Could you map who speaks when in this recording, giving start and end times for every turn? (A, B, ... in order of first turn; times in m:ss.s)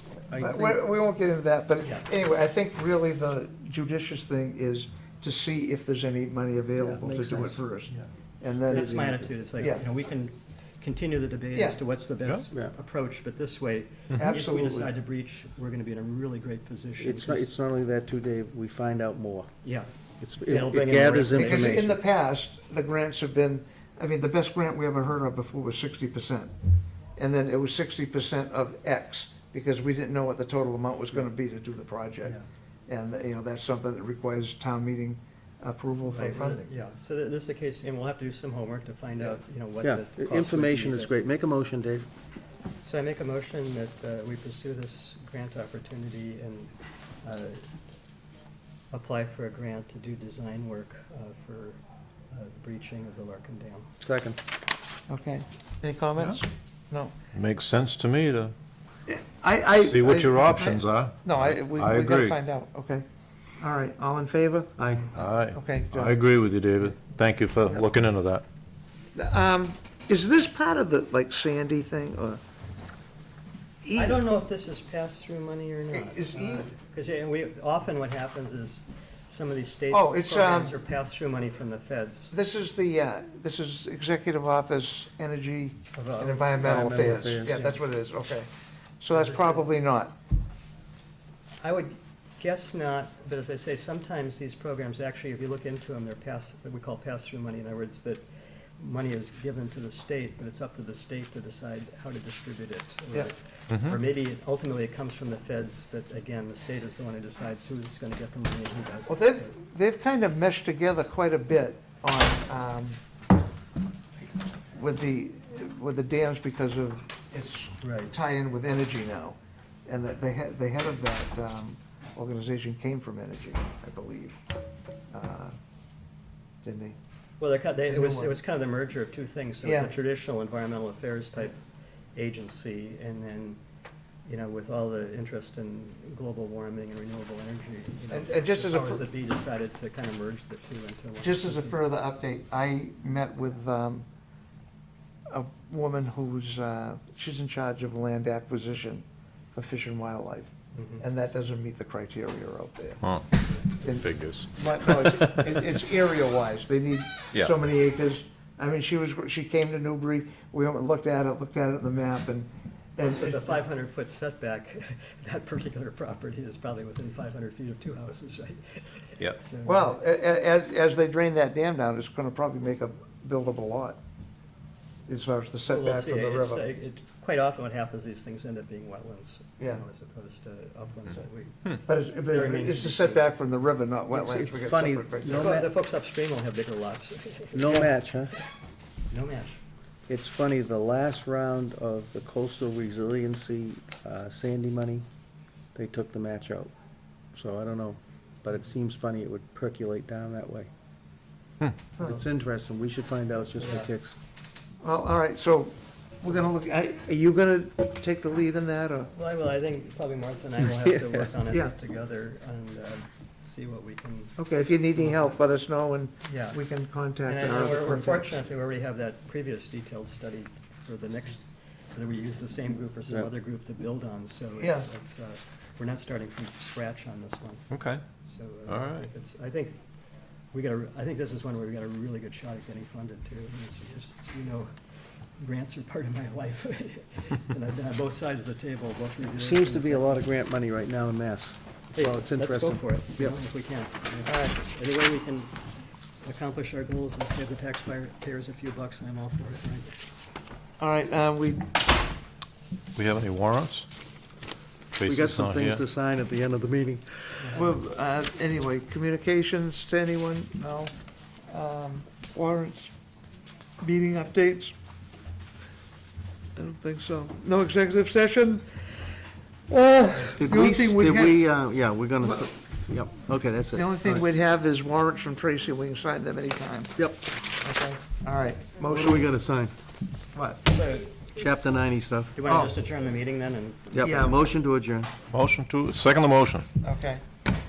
0:00.3-0:00.8 A
0:00.4-0:08.9 B
0:06.8-0:07.6 A
0:08.7-0:17.5 C
0:08.7-0:09.3 A
0:14.1-0:14.9 B
0:17.0-0:19.5 A
0:20.2-0:22.0 A
0:20.4-0:21.8 C
0:21.3-0:26.5 B
0:27.2-0:36.7 B
0:36.1-0:41.2 C
0:39.8-0:42.1 A
0:42.8-0:47.7 C
0:48.9-0:53.9 C
0:54.0-0:54.4 A
0:55.1-0:57.1 B
0:57.3-0:58.5 D
0:59.1-1:03.0 B
0:59.8-1:02.4 D
1:03.6-1:04.8 B
1:04.8-1:05.1 A
1:05.1-1:08.4 D
1:05.5-1:06.2 B
1:09.2-1:12.4 B
1:13.8-1:14.2 B
1:13.9-1:22.3 C
1:15.9-1:16.7 B
1:19.9-1:20.7 B
1:22.3-1:28.5 B
1:26.0-1:26.8 C
1:26.6-1:27.8 A
1:29.0-1:30.1 B
1:29.1-1:29.6 C
1:31.6-1:38.2 C
1:38.8-1:49.5 C
1:49.1-1:53.0 B
1:54.7-1:59.4 B
1:57.8-1:58.1 C
1:59.9-2:04.4 B
2:05.1-2:05.5 B
2:06.6-2:07.0 B
2:07.4-2:11.6 C
2:07.9-2:08.4 B
2:09.6-2:09.9 B
2:12.2-2:13.6 C
2:14.3-2:21.8 C
2:18.1-2:19.1 B
2:21.2-2:24.1 B
2:25.3-2:33.2 B
2:30.8-2:31.0 C
2:33.8-2:35.3 D
2:33.8-2:43.6 B
2:43.0-2:50.0 C
2:49.6-2:54.0 B
2:55.1-2:56.7 B
2:55.6-3:03.4 C
3:01.9-3:05.6 B
3:04.1-3:05.7 A
3:05.2-3:07.9 C
3:07.5-3:08.3 A
3:09.1-3:09.6 C
3:10.1-3:15.0 A
3:15.8-3:16.7 A
3:17.3-3:20.7 A
3:22.0-3:24.2 A
3:23.6-3:23.9 C
3:24.8-3:29.1 B
3:29.1-3:34.4 C
3:30.8-3:31.3 A
3:34.4-3:38.3 B
3:35.0-3:35.3 C
3:36.2-3:36.6 C
3:37.2-3:47.6 C
3:44.6-3:44.9 B
3:47.7-3:48.0 D
3:48.3-3:49.8 C
3:48.7-3:49.1 D
3:50.5-3:54.7 C
3:55.4-4:00.1 C
3:59.3-4:03.4 A
4:01.9-4:05.6 C
4:04.3-4:04.6 B
4:06.2-4:10.0 C
4:10.8-4:11.7 B
4:13.0-4:13.9 D
4:15.0-4:15.8 D
4:15.0-4:17.0 A
4:17.4-4:17.7 C
4:17.5-4:20.9 B
4:21.5-4:22.9 B
4:23.8-4:24.7 B
4:26.6-4:31.4 B
4:30.4-4:34.2 A
4:33.7-4:39.3 B
4:38.8-4:39.7 A
4:40.3-4:40.6 B
4:40.6-4:41.3 C
4:41.2-4:42.4 A
4:42.4-4:44.3 C
4:42.5-4:42.8 B
4:43.9-4:45.1 A
4:44.0-4:44.4 B
4:45.3-4:46.7 D
4:46.8-4:47.2 B